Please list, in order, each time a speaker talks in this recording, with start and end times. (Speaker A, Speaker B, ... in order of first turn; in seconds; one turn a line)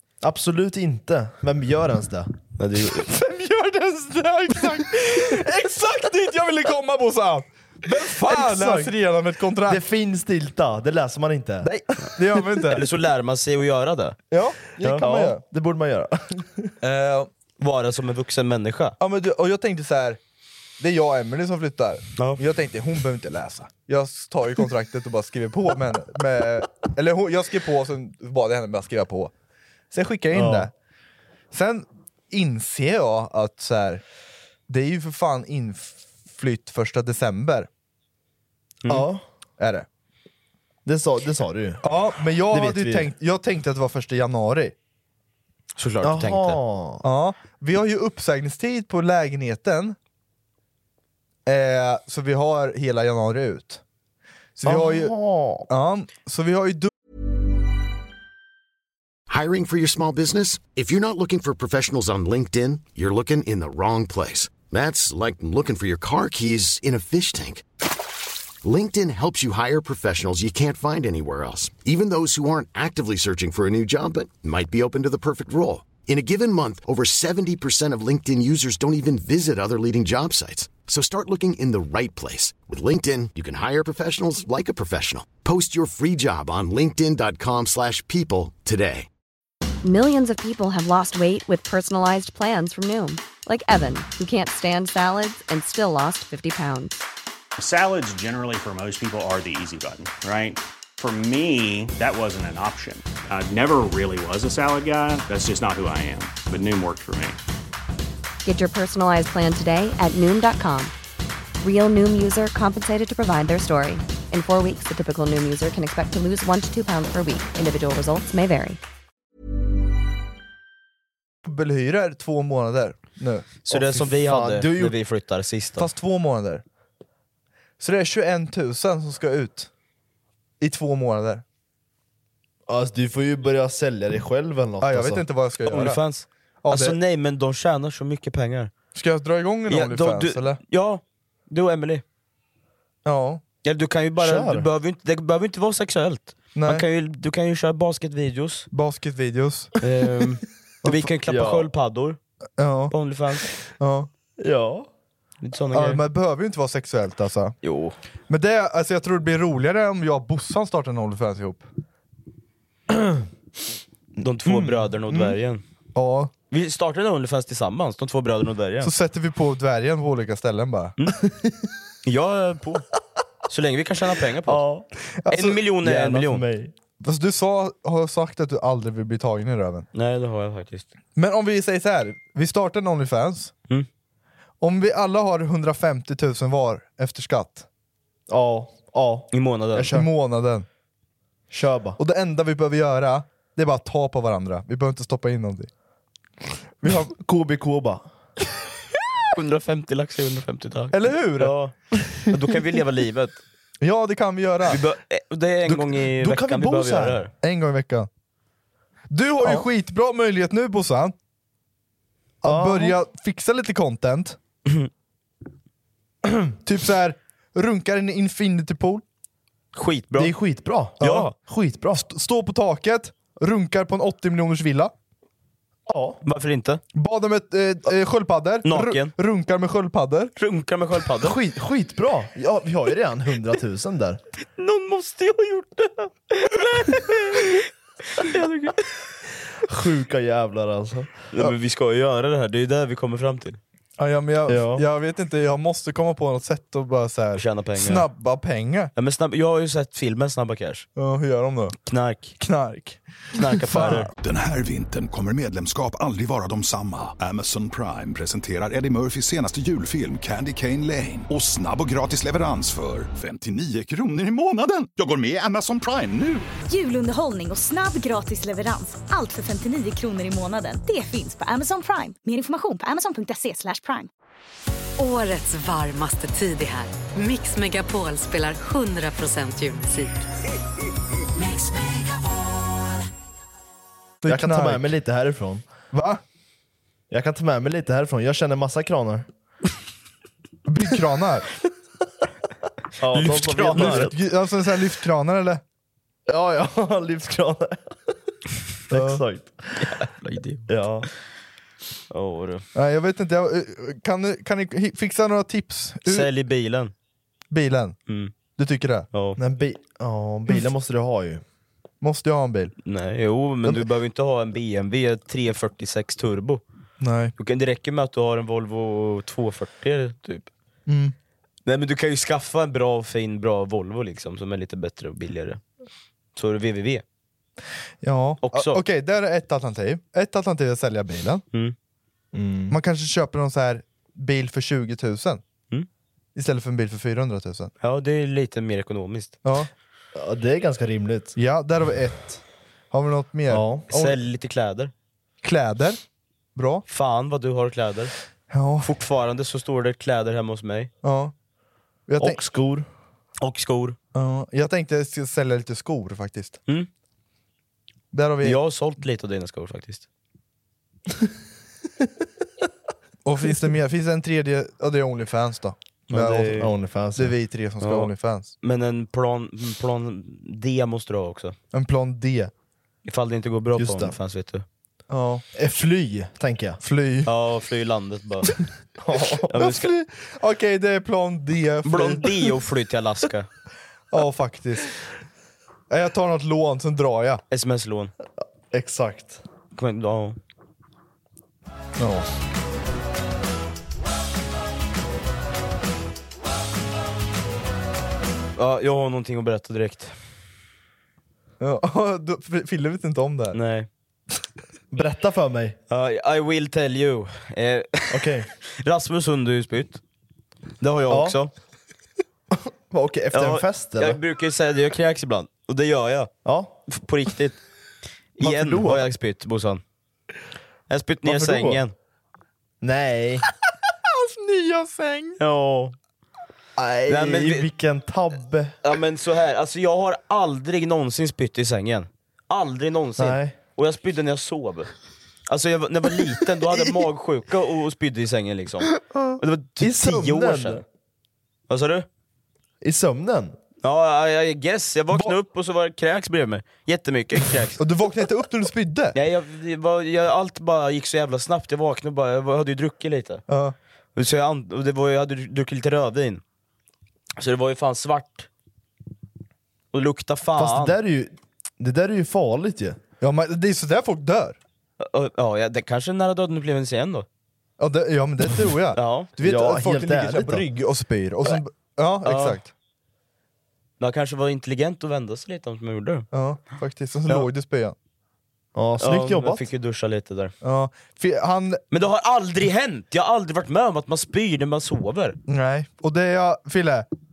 Speaker A: 0.2-2.3
Speaker B: 2.6-3.1
Speaker C: 2.8-9.8
Speaker A: 8.2-8.9
Speaker A: 9.7-11.7
Speaker C: 11.6-12.8
Speaker B: 12.7-14.2
Speaker C: 14.3-15.4
Speaker A: 14.8-16.7
Speaker C: 16.8-17.3
Speaker B: 17.6-19.0
Speaker C: 19.0-20.2
Speaker C: 20.8-29.3
Speaker C: 29.9-30.7
Speaker A: 30.3-30.7
Speaker C: 31.5-34.0
Speaker C: 34.7-37.7
Speaker A: 38.9-39.2
Speaker C: 39.6-39.9
Speaker A: 40.9-41.9
Speaker C: 41.8-44.8
Speaker A: 42.5-43.1
Speaker B: 45.8-46.6
Speaker A: 46.0-47.0
Speaker C: 47.0-50.0
Speaker C: 51.5-53.8
Speaker C: 54.6-55.1
Speaker A: 54.6-55.7
Speaker C: 55.7-56.9
Speaker D: 59.3-67.6
Speaker D: 68.6-89.1
Speaker E: 89.8-97.0
Speaker F: 97.6-107.4
Speaker E: 108.5-110.9
Speaker E: 111.6-118.8
Speaker C: 121.5-123.5
Speaker B: 123.7-125.9
Speaker A: 123.7-125.0
Speaker C: 125.8-126.6
Speaker C: 127.8-129.7
Speaker C: 130.6-131.4
Speaker A: 132.7-135.2
Speaker C: 134.8-136.0
Speaker B: 135.7-138.7
Speaker C: 136.6-137.0
Speaker C: 138.9-140.6
Speaker B: 139.7-142.0
Speaker C: 143.1-143.4
Speaker B: 143.6-148.7
Speaker A: 144.2-144.7
Speaker C: 146.6-146.8
Speaker C: 148.7-149.8
Speaker B: 149.8-152.2
Speaker A: 151.3-151.7
Speaker C: 152.6-152.9
Speaker B: 152.9-153.5
Speaker C: 153.8-154.1
Speaker A: 154.4-154.9
Speaker B: 155.4-156.0
Speaker C: 155.7-157.6
Speaker B: 157.6-158.0
Speaker C: 158.3-161.7
Speaker A: 162.9-163.3
Speaker B: 164.2-165.6
Speaker A: 164.4-165.4
Speaker C: 165.9-166.3
Speaker B: 166.5-168.9
Speaker C: 168.8-170.9
Speaker A: 171.2-171.6
Speaker B: 172.1-172.8
Speaker B: 173.5-174.6
Speaker A: 174.5-174.9
Speaker C: 175.3-175.6
Speaker B: 175.3-176.4
Speaker A: 175.8-176.7
Speaker C: 177.0-179.9
Speaker B: 179.9-180.9
Speaker C: 181.2-183.5
Speaker C: 184.6-187.7
Speaker A: 188.3-190.1
Speaker B: 189.3-189.9
Speaker C: 189.9-190.7
Speaker A: 191.5-192.0
Speaker C: 192.0-195.7
Speaker A: 196.8-198.1
Speaker B: 199.3-201.8
Speaker C: 200.9-201.6
Speaker B: 202.3-203.4
Speaker C: 203.8-204.8
Speaker B: 204.7-207.3
Speaker A: 206.2-207.2
Speaker C: 207.4-208.1
Speaker C: 209.1-211.2
Speaker C: 212.4-214.4
Speaker A: 212.4-213.0
Speaker C: 216.6-219.0
Speaker B: 219.7-220.3
Speaker A: 220.2-222.0
Speaker B: 221.0-221.3
Speaker C: 221.0-221.3
Speaker C: 221.9-224.9
Speaker A: 225.9-226.2
Speaker B: 226.2-226.8
Speaker C: 226.9-230.3
Speaker B: 228.7-229.1
Speaker B: 230.4-231.4
Speaker A: 231.2-234.2
Speaker B: 234.4-238.8
Speaker A: 239.6-241.1
Speaker B: 241.3-243.6
Speaker C: 244.0-248.9
Speaker A: 244.5-244.8
Speaker B: 247.3-248.1
Speaker B: 249.0-250.9
Speaker C: 251.0-251.8
Speaker B: 251.8-252.3
Speaker C: 252.4-253.0
Speaker B: 253.3-254.1
Speaker C: 253.6-254.1
Speaker G: 254.2-266.5
Speaker H: 266.7-274.1
Speaker I: 275.0-280.3
Speaker I: 281.5-282.0
Speaker C: 284.2-284.9
Speaker A: 284.3-285.6
Speaker C: 285.9-286.2
Speaker A: 287.1-289.3
Speaker C: 290.7-291.5
Speaker A: 293.0-294.1
Speaker B: 293.1-294.1
Speaker C: 293.6-295.6
Speaker A: 296.3-298.0
Speaker A: 298.9-299.9
Speaker C: 298.9-299.2
Speaker B: 299.8-300.7
Speaker A: 300.7-301.1
Speaker B: 302.1-302.6
Speaker C: 302.8-306.3
Speaker B: 306.1-306.9
Speaker C: 307.5-308.0
Speaker B: 308.1-308.3
Speaker C: 308.6-309.1
Speaker B: 309.1-309.4
Speaker A: 309.4-311.4
Speaker C: 312.0-312.7
Speaker B: 312.9-316.6
Speaker C: 317.0-317.3
Speaker B: 317.4-320.5
Speaker C: 320.9-321.1
Speaker B: 321.7-325.6
Speaker B: 326.4-327.0
Speaker C: 328.0-331.4
Speaker B: 328.4-328.8
Speaker A: 332.3-332.8
Speaker C: 332.7-335.4
Speaker C: 336.4-337.7
Speaker B: 337.8-339.4
Speaker C: 339.4-339.7
Speaker A: 340.1-341.4
Speaker C: 341.4-344.2
Speaker A: 343.5-343.9
Speaker B: 343.9-344.9
Speaker C: 345.4-346.0
Speaker C: 346.6-346.9
Speaker B: 346.9-348.1
Speaker C: 348.5-348.9
Speaker B: 348.8-350.9
Speaker C: 351.0-351.3
Speaker C: 352.1-352.4
Speaker A: 352.2-352.9
Speaker B: 353.4-354.0
Speaker C: 354.1-356.6
Speaker C: 358.1-358.6
Speaker B: 358.4-360.1
Speaker C: 363.2-368.5
Speaker B: 366.1-366.7
Speaker A: 366.5-367.3
Speaker B: 367.8-371.6
Speaker C: 371.7-372.5
Speaker B: 373.1-374.6
Speaker A: 373.8-374.1
Speaker C: 375.1-375.4
Speaker A: 375.5-376.8
Speaker C: 376.8-377.3
Speaker B: 377.3-378.5
Speaker A: 379.0-379.6
Speaker B: 379.5-379.9
Speaker C: 379.5-382.4
Speaker B: 381.9-383.5
Speaker C: 384.1-384.9
Speaker C: 385.9-387.4
Speaker B: 387.5-388.1
Speaker A: 388.7-389.4
Speaker B: 389.7-390.4
Speaker C: 392.0-392.3
Speaker B: 398.6-400.1
Speaker C: 401.6-403.6
Speaker B: 403.5-403.9
Speaker A: 404.9-405.8
Speaker B: 405.9-410.0
Speaker A: 408.1-408.5
Speaker B: 410.8-411.5
Speaker A: 411.1-411.4
Speaker A: 412.5-414.2
Speaker B: 413.3-416.3
Speaker A: 416.4-416.8
Speaker B: 416.9-417.6
Speaker B: 418.4-419.8
Speaker A: 418.4-419.1
Speaker B: 420.9-421.9
Speaker A: 421.2-421.8
Speaker A: 422.8-423.5
Speaker C: 424.1-425.4
Speaker B: 425.4-426.0
Speaker A: 426.8-428.8
Speaker B: 427.1-427.7
Speaker B: 428.8-434.9
Speaker A: 433.2-433.6
Speaker B: 435.5-440.8
Speaker A: 439.1-440.8
Speaker B: 441.7-442.1
Speaker A: 442.8-443.6
Speaker B: 443.8-447.8
Speaker C: 447.8-449.2
Speaker B: 449.1-453.4
Speaker C: 453.5-453.8
Speaker B: 454.2-456.4
Speaker B: 457.4-458.5
Speaker B: 459.9-461.0
Speaker A: 460.6-463.0
Speaker C: 463.2-464.6
Speaker B: 465.0-467.3
Speaker C: 467.8-472.7
Speaker B: 468.9-469.3
Speaker A: 469.4-470.7
Speaker B: 472.2-472.6
Speaker B: 474.0-476.3
Speaker C: 476.3-477.9
Speaker A: 478.8-479.7
Speaker B: 479.0-480.5
Speaker C: 480.6-481.8
Speaker B: 481.9-485.4
Speaker C: 485.5-487.1